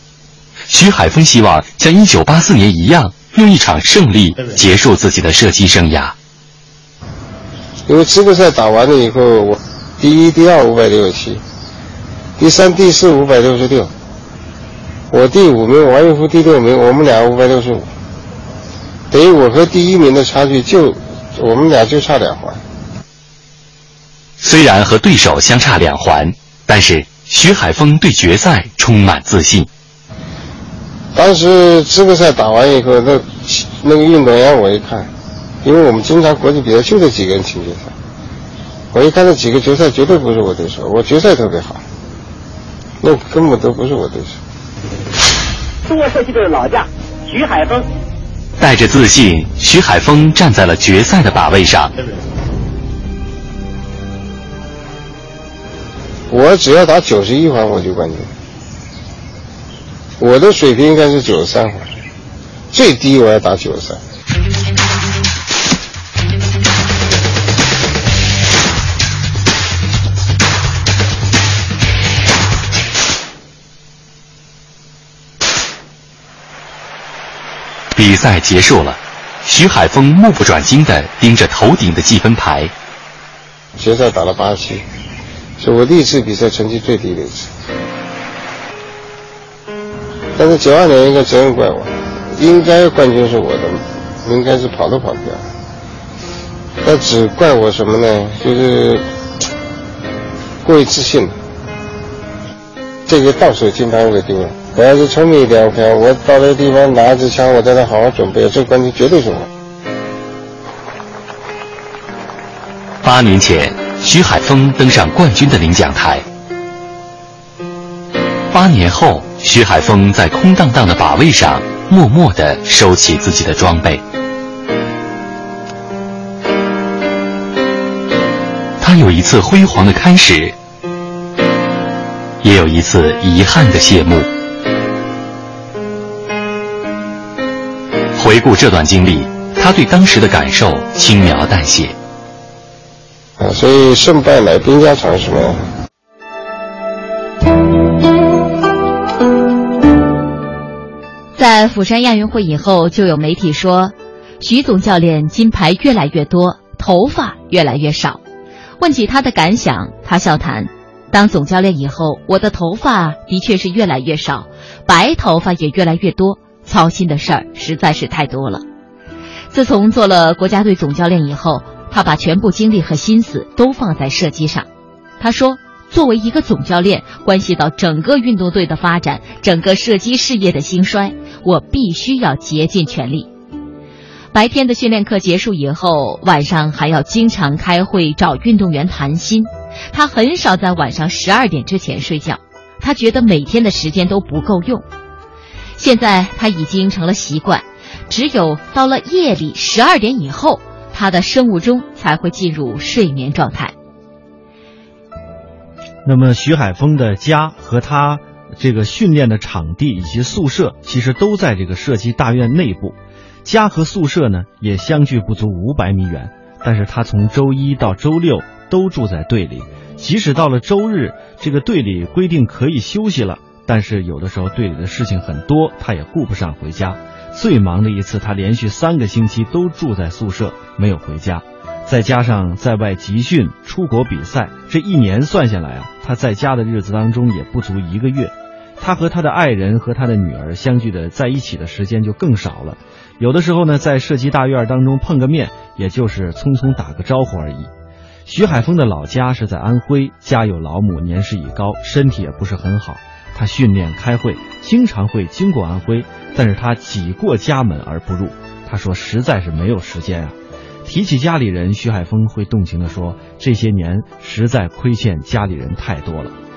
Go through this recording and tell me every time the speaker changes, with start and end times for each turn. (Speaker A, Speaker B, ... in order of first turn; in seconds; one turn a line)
Speaker A: 0.7-6.2
Speaker B: 7.9-11.4
Speaker B: 12.4-13.9
Speaker B: 15.1-17.9
Speaker B: 19.1-22.6
Speaker A: 24.4-29.7
Speaker B: 31.1-35.1
Speaker B: 35.6-37.9
Speaker B: 38.9-41.8
Speaker B: 43.0-44.4
Speaker C: 45.9-47.9
Speaker A: 48.6-51.9
Speaker B: 56.3-58.3
Speaker B: 60.2-61.9
Speaker B: 62.7-64.0
Speaker A: 78.0-82.7
Speaker B: 83.8-84.8
Speaker B: 85.6-87.5
Speaker B: 90.4-95.4
Speaker B: 96.8-99.0
Speaker B: 100.6-101.4
Speaker B: 103.1-109.5
Speaker A: 113.0-116.2
Speaker A: 118.5-124.0
Speaker A: 128.8-130.6
Speaker A: 132.4-134.3
Speaker A: 138.2-141.9
Speaker B: 143.4-145.6
Speaker D: 151.3-158.2
Speaker D: 158.8-168.6
Speaker D: 169.5-174.7
Speaker D: 175.2-183.3
Speaker D: 184.3-194.9
Speaker D: 195.8-203.7
Speaker E: 206.0-247.7
Speaker E: 248.3-266.4